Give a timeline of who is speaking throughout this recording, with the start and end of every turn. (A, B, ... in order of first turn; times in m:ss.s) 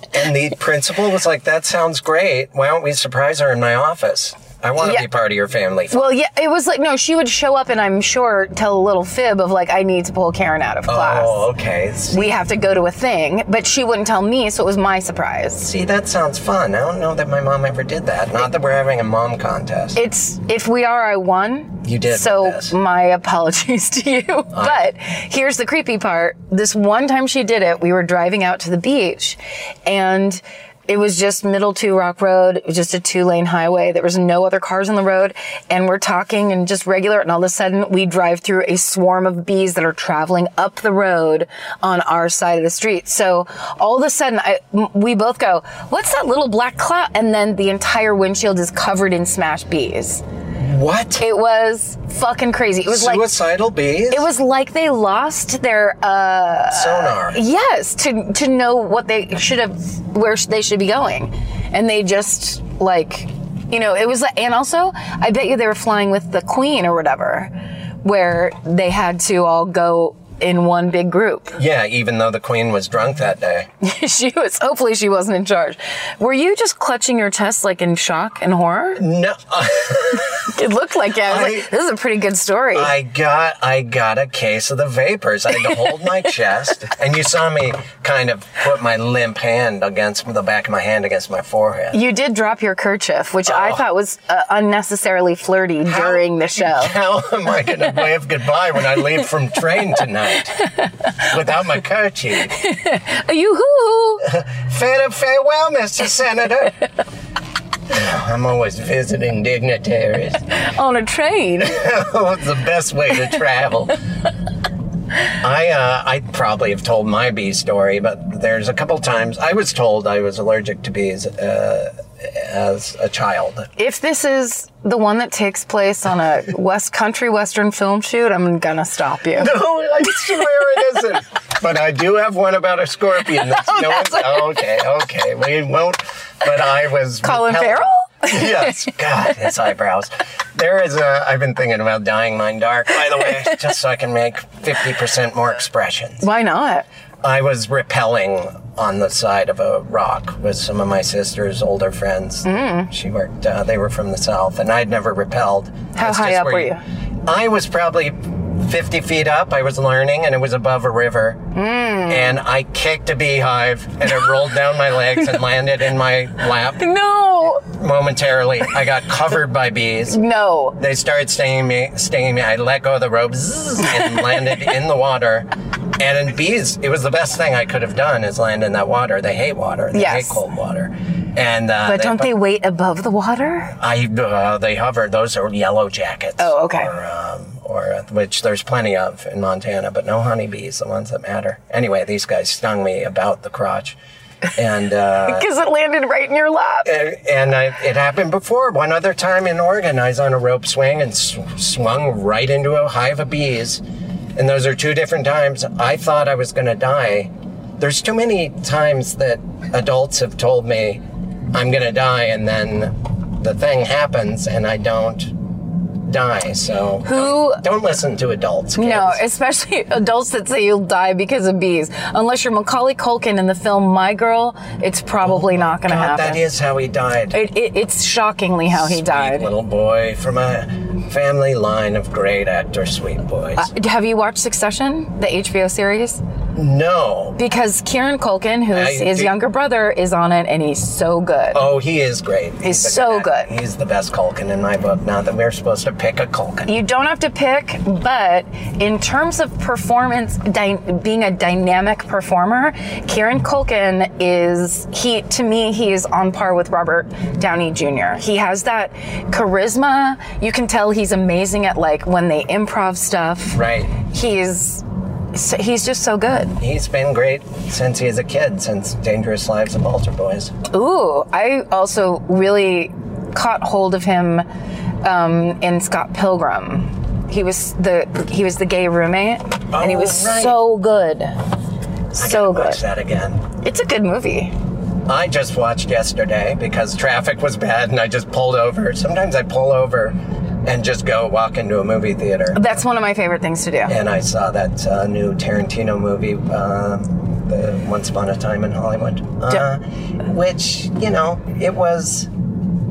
0:00.1-0:06.1 A
0:04.8-0:05.1 B
0:05.9-0:11.4 B
0:10.9-0:12.4 A
0:12.1-0:15.7 B
0:15.6-0:20.0 A
0:20.0-0:50.2 B
0:21.8-0:22.8 A
0:24.5-0:24.8 A
0:50.6-0:51.2 A
0:51.2-0:53.3 B
0:52.9-0:54.3 A
0:54.1-1:11.6 B
0:56.7-0:57.4 A
1:11.5-1:13.7 A
1:13.8-1:19.0 B
1:19.0-1:20.5 A
1:20.4-1:22.9 B
1:21.2-1:21.7 A
1:22.7-1:32.0 A
1:31.9-1:37.0 B
1:33.5-1:33.8 A
1:35.9-1:40.7 A
1:41.2-1:42.6 A
1:42.6-1:44.2 B
1:44.2-1:46.8 A
1:47.9-1:50.4 A
1:50.5-1:51.8 B
1:51.6-1:54.0 A
1:55.3-2:03.7 A
2:03.8-2:09.6 B
2:09.4-2:26.2 A
2:17.2-2:18.9 B
2:26.2-2:26.9 B
2:27.2-2:41.4 A
2:32.4-2:32.9 B
2:36.0-2:36.8 B
2:41.5-2:42.4 B
2:42.1-2:46.8 A
2:46.7-2:47.6 B
2:47.6-2:50.2 A
2:50.1-2:50.8 B
2:50.8-3:02.3 A
2:59.9-3:00.4 B
3:01.8-3:03.7 B
3:03.8-3:14.0 A
3:06.4-3:06.9 B
3:14.6-3:15.5 A
3:15.3-3:16.9 B
3:16.8-3:23.8 A
3:24.4-3:35.4 A
3:35.9-3:39.2 A
3:37.0-3:37.6 B
3:38.8-3:46.4 B
3:45.2-3:47.4 A
3:47.3-3:49.5 B
3:48.7-3:53.7 A
3:53.6-3:56.2 B
3:56.6-3:57.4 A
3:57.4-4:01.6 B
3:58.7-3:59.4 A
4:01.5-4:06.7 A
4:02.6-4:03.5 B
4:06.7-4:26.6 B
4:23.5-4:23.9 A
4:26.6-4:30.5 A
4:30.7-4:34.5 B
4:35.0-4:41.4 B
4:39.7-4:40.6 A
4:42.1-4:42.8 B
4:42.2-4:43.4 A
4:43.6-4:44.5 B
4:45.0-4:52.7 A
4:52.5-4:54.0 B
4:53.9-5:02.3 A